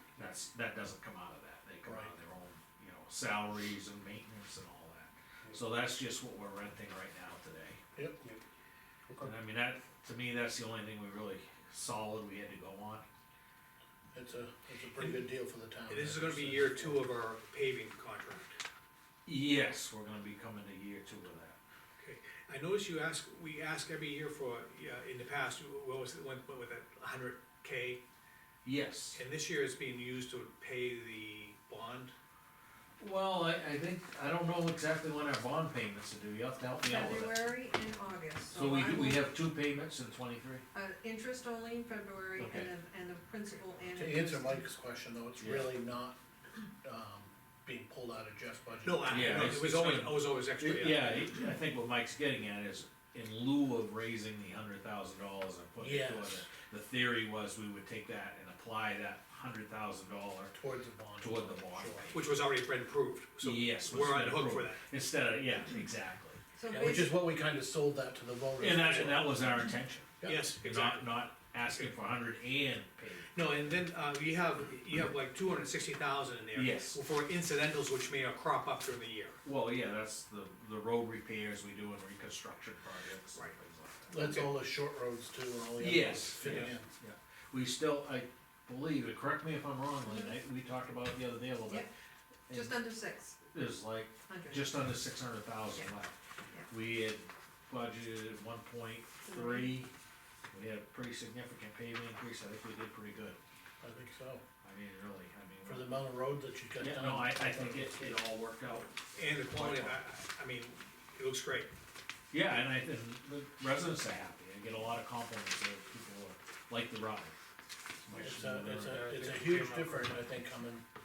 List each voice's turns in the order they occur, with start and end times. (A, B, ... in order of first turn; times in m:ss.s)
0:00.2-0:07.8 A
0:01.8-0:02.1 B
0:08.0-0:08.2 B
0:09.2-0:13.0 A
0:14.1-0:17.1 B
0:15.9-0:18.6 C
0:19.2-0:21.6 A
0:22.0-0:28.0 C
0:28.6-0:29.2 A
0:29.1-0:32.1 C
0:33.0-0:37.5 A
0:36.8-0:39.3 D
0:38.5-0:40.6 A
0:40.7-0:44.6 D
0:42.4-0:42.7 A
0:43.9-0:46.2 B
0:45.4-0:45.8 A
0:46.8-0:49.5 B
0:48.8-0:51.3 C
0:49.0-1:00.6 A
0:55.8-0:56.5 B
1:00.5-1:02.2 B
1:01.2-1:02.2 A
1:02.1-1:04.8 C
1:03.4-1:06.4 A
1:06.5-1:07.2 D
1:06.7-1:09.4 B
1:08.6-1:13.5 A
1:10.2-1:10.5 B
1:10.2-1:11.1 C
1:13.3-1:19.4 C
1:16.5-1:17.0 A
1:19.4-1:24.4 A
1:24.1-1:26.9 B
1:24.2-1:24.5 C
1:25.8-1:31.9 A
1:30.0-1:30.3 D
1:32.5-1:32.9 A
1:32.5-1:33.4 D
1:33.5-1:36.2 A
1:34.3-1:34.7 D
1:36.7-1:39.9 A
1:39.2-1:39.8 D
1:40.5-1:43.4 A
1:43.8-1:44.4 B
1:44.6-1:46.0 A
1:45.6-1:48.2 B
1:46.8-1:50.0 A
1:49.1-1:51.7 C
1:52.3-1:57.3 A
1:58.0-1:59.9 A
1:58.1-2:00.8 B
1:58.9-1:59.7 C